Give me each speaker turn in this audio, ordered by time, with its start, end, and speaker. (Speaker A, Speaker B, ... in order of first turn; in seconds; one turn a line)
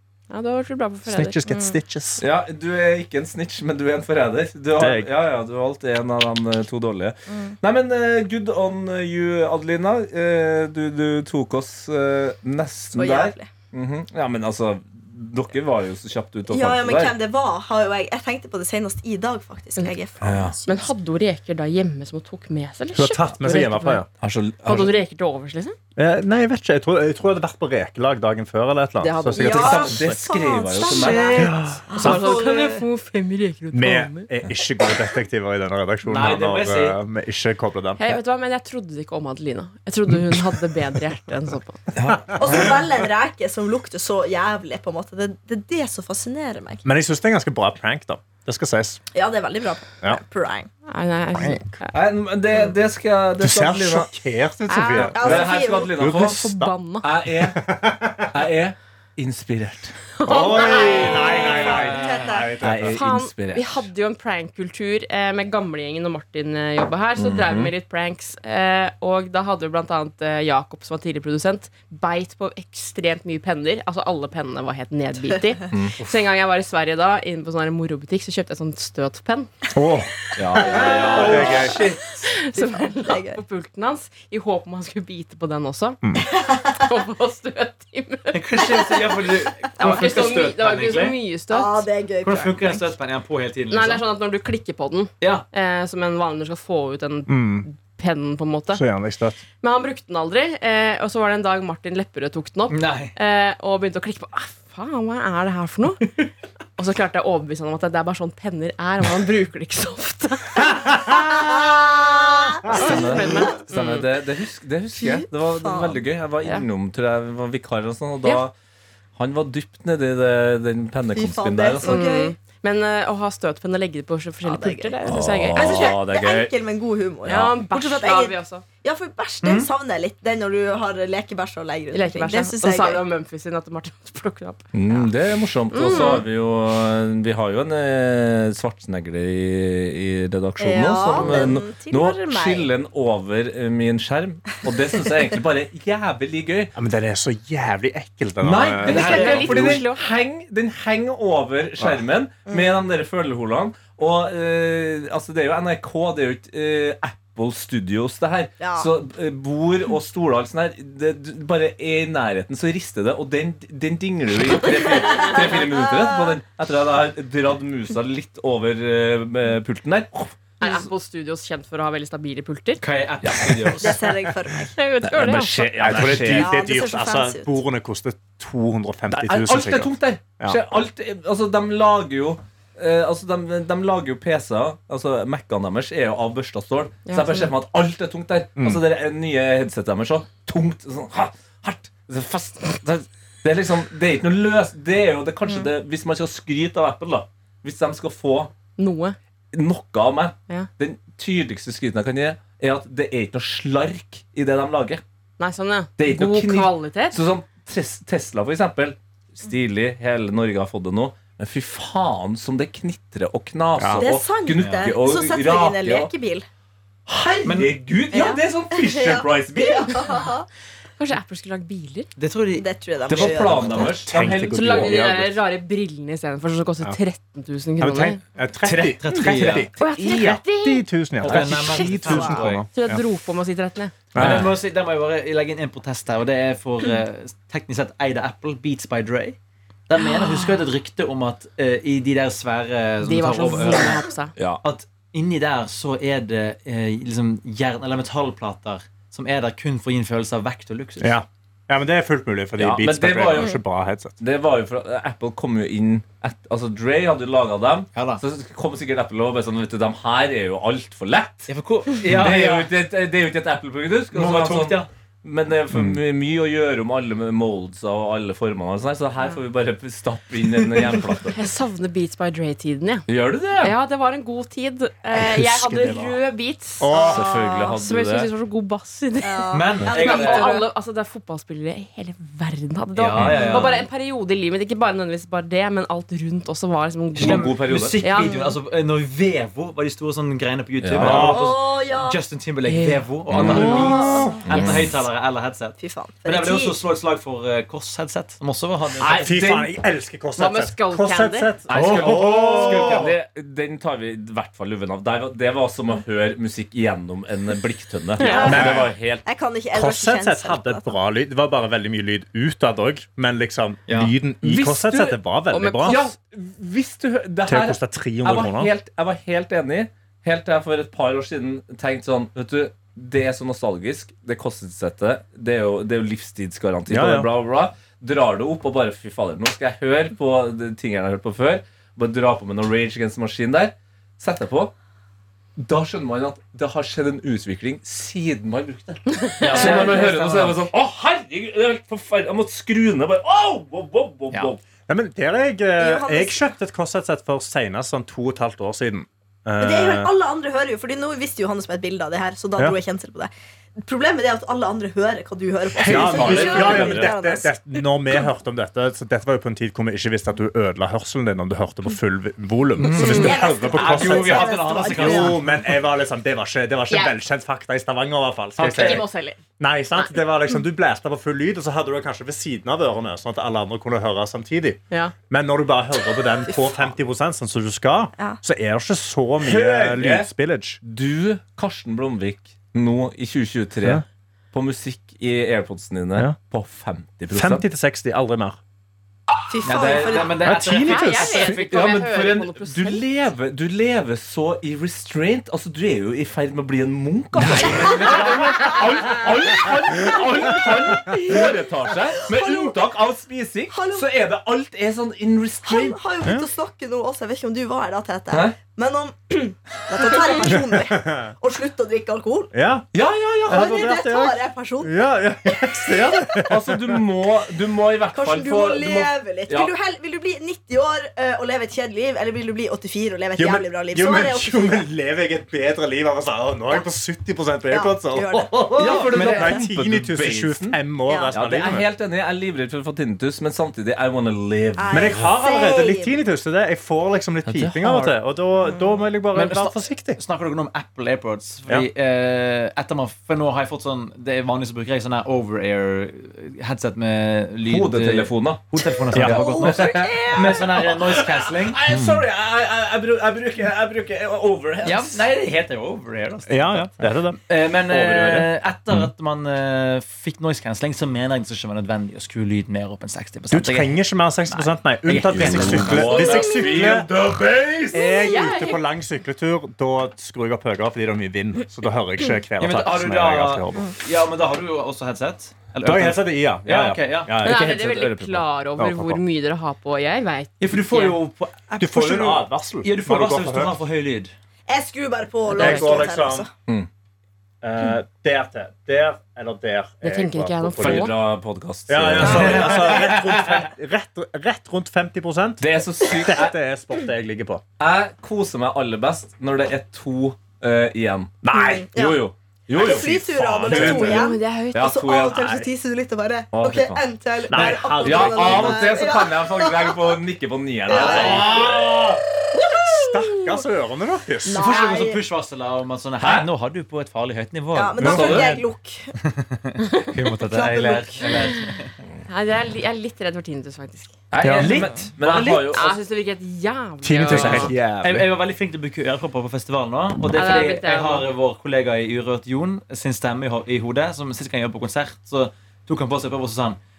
Speaker A: 0.3-1.7
Speaker B: 1.1-2.2
Speaker C: 2.2-17.2
Speaker B: 4.8-5.1
Speaker D: 7.3-7.5
Speaker D: 12.9-13.5
Speaker D: 16.5-20.9
Speaker C: 20.2-20.6
Speaker A: 20.6-24.0
Speaker B: 22.9-24.1
Speaker C: 24.2-24.9
Speaker A: 24.6-25.8
Speaker B: 25.9-30.1
Speaker A: 29.0-29.6
Speaker D: 29.3-32.8
Speaker C: 29.4-31.5
Speaker A: 30.8-34.3
Speaker B: 31.3-32.3
Speaker B: 33.7-38.2
Speaker E: 36.0-37.0
Speaker A: 38.0-41.8
Speaker C: 41.9-42.8
Speaker B: 42.1-42.8
Speaker D: 42.3-46.8
Speaker B: 46.8-49.0
Speaker D: 49.1-50.7
Speaker A: 50.9-51.9
Speaker B: 51.3-51.7
Speaker C: 51.9-54.1
Speaker B: 53.4-56.7
Speaker A: 54.7-55.3
Speaker C: 55.0-56.5
Speaker D: 55.1-56.0
Speaker A: 56.0-57.1
Speaker C: 57.0-57.8
Speaker B: 57.4-58.3
Speaker C: 58.3-60.0
Speaker A: 60.2-61.9
Speaker B: 60.2-63.0
Speaker D: 60.5-62.5
Speaker C: 62.6-63.9
Speaker A: 62.9-79.5
Speaker C: 67.2-67.7
Speaker C: 75.7-76.0
Speaker B: 79.7-81.8
Speaker C: 80.3-81.7
Speaker D: 80.8-83.4
Speaker E: 81.2-82.0
Speaker A: 82.2-89.0
Speaker D: 86.4-86.7
Speaker E: 88.3-91.2
Speaker A: 89.8-91.8
Speaker D: 91.5-92.9
Speaker E: 92.2-94.0
Speaker A: 93.7-98.8
Speaker B: 97.3-97.7
Speaker B: 98.7-99.4
Speaker A: 99.6-106.1
Speaker E: 102.7-103.1
Speaker A: 106.8-110.7
Speaker B: 110.7-111.7
Speaker D: 111.1-113.4
Speaker C: 112.7-118.5
Speaker A: 112.7-114.1
Speaker D: 115.0-116.0
Speaker C: 119.2-122.0
Speaker D: 121.1-122.3
Speaker A: 121.8-126.0
Speaker D: 124.4-125.0
Speaker C: 125.1-126.5
Speaker D: 125.5-133.0
Speaker C: 127.2-127.5
Speaker A: 127.3-128.6
Speaker E: 129.4-129.7
Speaker A: 131.9-135.0
Speaker C: 134.7-146.7
Speaker A: 135.7-136.2
Speaker D: 135.9-136.2
Speaker D: 140.6-142.7
Speaker B: 146.7-149.8
Speaker C: 148.4-170.9
Speaker A: 148.8-150.0
Speaker D: 158.6-158.9
Speaker D: 164.6-166.4
Speaker A: 170.6-172.8
Speaker E: 172.8-174.0
Speaker C: 173.2-173.9
Speaker D: 173.8-174.7
Speaker A: 174.7-175.7
Speaker C: 175.0-176.6
Speaker B: 175.8-180.6
Speaker D: 176.0-177.6
Speaker C: 179.1-198.5
Speaker A: 187.1-187.5
Speaker B: 188.6-188.8
Speaker A: 198.8-199.2
Speaker C: 199.5-205.0
Speaker A: 205.4-207.2
Speaker C: 206.0-216.1
Speaker B: 213.8-214.1
Speaker D: 214.0-216.4
Speaker C: 217.1-220.0
Speaker E: 217.4-217.8
Speaker D: 218.1-220.4
Speaker A: 221.0-222.1
Speaker E: 222.2-223.8
Speaker D: 222.5-224.0
Speaker C: 223.1-225.0
Speaker B: 224.0-225.4
Speaker A: 224.5-228.2
Speaker B: 227.8-233.0
Speaker E: 228.6-229.7
Speaker A: 229.8-230.9
Speaker E: 231.2-232.7
Speaker D: 232.0-232.4
Speaker A: 232.7-233.9
Speaker B: 234.1-234.5
Speaker E: 234.1-239.4
Speaker C: 234.2-234.5
Speaker E: 239.9-244.0
Speaker A: 243.0-244.3
Speaker C: 244.3-244.6
Speaker E: 244.6-251.2
Speaker B: 251.0-254.1
Speaker C: 252.6-253.6
Speaker C: 254.2-261.5
Speaker E: 257.9-258.2
Speaker E: 261.5-262.7
Speaker C: 262.0-271.4
Speaker E: 264.1-264.9
Speaker E: 270.6-271.1
Speaker A: 271.3-273.1
Speaker C: 273.1-273.7
Speaker A: 273.6-288.3
Speaker B: 275.1-276.2
Speaker B: 276.8-277.3
Speaker C: 277.1-278.3
Speaker D: 279.2-280.7
Speaker E: 279.5-280.6
Speaker E: 282.9-283.9
Speaker C: 283.2-283.6
Speaker E: 287.1-299.4
Speaker C: 287.2-288.0
Speaker D: 288.2-288.6
Speaker C: 290.8-291.4
Speaker B: 291.0-291.4
Speaker D: 291.1-292.2
Speaker A: 292.7-294.1
Speaker C: 293.3-293.9
Speaker D: 293.7-294.4
Speaker B: 294.1-294.3
Speaker C: 294.5-294.8
Speaker D: 295.8-296.8
Speaker C: 299.0-299.7
Speaker B: 299.2-303.1
Speaker A: 300.4-301.5
Speaker C: 301.7-309.2
Speaker E: 301.7-303.1
Speaker A: 308.2-308.6
Speaker D: 308.2-310.9
Speaker B: 308.4-308.9
Speaker B: 309.7-316.0
Speaker E: 313.9-314.1
Speaker C: 314.4-315.2
Speaker A: 315.5-316.1
Speaker C: 315.8-334.7
Speaker B: 317.4-318.7
Speaker B: 326.9-327.3
Speaker C: 335.6-344.6
Speaker A: 339.2-339.9
Speaker E: 339.4-340.6
Speaker B: 344.9-350.1
Speaker D: 345.8-346.4
Speaker D: 349.6-357.6
Speaker C: 355.8-357.1
Speaker B: 355.8-369.0
Speaker E: 362.8-365.7
Speaker D: 362.9-365.4
Speaker A: 363.1-363.3
Speaker A: 366.9-367.1
Speaker E: 368.6-369.0
Speaker A: 368.7-369.4
Speaker B: 369.6-380.8
Speaker C: 379.4-380.3
Speaker C: 380.8-387.6
Speaker B: 387.3-388.6
Speaker D: 389.5-390.4
Speaker E: 389.6-391.3
Speaker B: 390.4-391.6
Speaker A: 390.8-393.0
Speaker C: 391.3-406.0
Speaker B: 397.4-398.0
Speaker E: 397.9-398.2
Speaker D: 402.2-402.8
Speaker D: 403.7-404.1
Speaker D: 405.6-412.5
Speaker C: 408.3-408.6
Speaker B: 410.5-411.3
Speaker B: 412.5-412.9
Speaker C: 412.9-413.8
Speaker B: 413.4-417.0
Speaker D: 413.5-416.3
Speaker C: 416.3-419.7
Speaker D: 418.1-424.8
Speaker B: 423.4-431.9
Speaker D: 427.7-429.6
Speaker C: 428.7-430.8
Speaker E: 428.8-429.3
Speaker D: 431.1-431.3
Speaker C: 431.3-435.2
Speaker D: 434.8-436.1
Speaker B: 434.9-440.2
Speaker C: 437.5-438.1
Speaker E: 439.3-451.8
Speaker C: 447.6-448.8
Speaker B: 449.1-449.4
Speaker D: 449.2-450.7
Speaker C: 449.5-455.3
Speaker B: 451.9-452.2
Speaker E: 454.8-456.9
Speaker B: 456.5-457.4
Speaker E: 457.5-466.3
Speaker C: 457.9-458.5
Speaker B: 463.5-467.1
Speaker C: 465.3-468.1
Speaker D: 466.2-466.9
Speaker B: 467.9-473.9
Speaker A: 468.2-468.8
Speaker E: 472.6-477.5
Speaker B: 475.8-479.2
Speaker A: 477.4-481.2
Speaker C: 477.5-478.3
Speaker E: 480.6-484.3
Speaker B: 481.8-483.8
Speaker D: 484.7-486.5
Speaker B: 485.5-486.5
Speaker A: 485.6-486.0
Speaker B: 487.6-491.1
Speaker A: 490.0-491.1
Speaker C: 490.8-493.2
Speaker B: 491.9-497.6
Speaker E: 492.2-493.4
Speaker D: 492.2-492.7
Speaker C: 495.6-496.5
Speaker C: 497.8-505.6
Speaker B: 501.4-501.9
Speaker D: 501.5-510.2
Speaker B: 502.8-504.3
Speaker A: 504.1-504.9
Speaker B: 505.3-505.6
Speaker C: 506.5-507.0
Speaker B: 507.5-508.9
Speaker E: 507.5-507.8
Speaker C: 508.0-512.2
Speaker D: 510.9-512.0
Speaker B: 510.9-511.9
Speaker D: 512.5-513.6
Speaker B: 512.8-514.6
Speaker D: 514.4-515.2
Speaker E: 514.5-518.5
Speaker C: 516.2-516.5
Speaker D: 517.7-519.1
Speaker B: 518.0-518.6
Speaker C: 518.0-518.6
Speaker E: 519.2-521.9
Speaker D: 520.5-521.3
Speaker A: 522.3-524.1
Speaker C: 524.3-526.0
Speaker B: 524.4-524.9
Speaker E: 524.5-525.8
Speaker A: 525.7-527.7
Speaker B: 527.0-528.2
Speaker E: 527.3-536.8
Speaker C: 527.3-527.6
Speaker A: 530.3-531.3